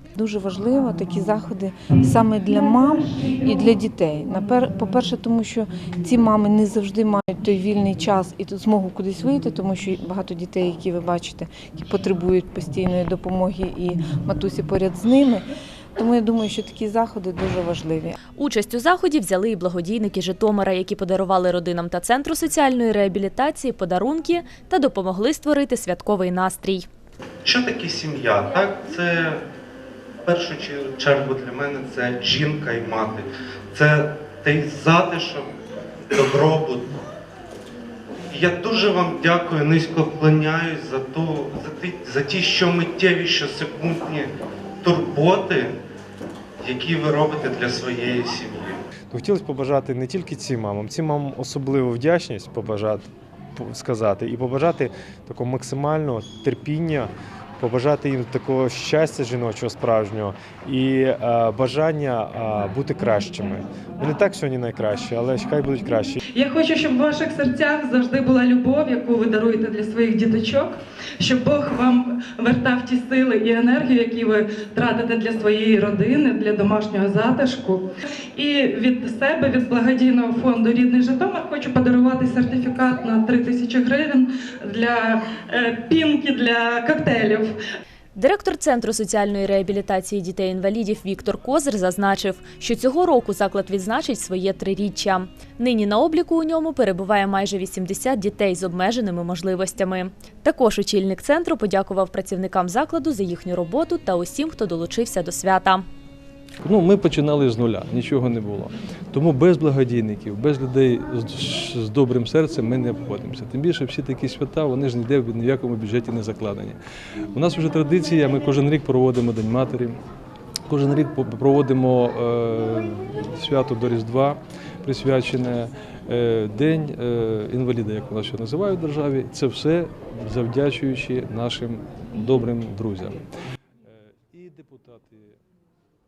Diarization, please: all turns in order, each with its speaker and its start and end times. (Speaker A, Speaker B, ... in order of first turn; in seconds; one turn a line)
Speaker A: 0.1-15.4
Speaker A: 16.0-18.2
Speaker B: 18.4-26.9
Speaker C: 27.4-29.4
Speaker C: 30.2-35.5
Speaker C: 36.1-37.0
Speaker C: 38.3-44.3
Speaker C: 44.8-45.8
Speaker C: 46.6-48.8
Speaker D: 49.1-66.2
Speaker E: 66.3-77.8
Speaker E: 78.3-87.5
Speaker B: 88.1-105.8
Speaker F: 106.6-116.8
Speaker F: 117.3-120.0
Speaker F: 120.7-133.2
Speaker F: 133.8-135.4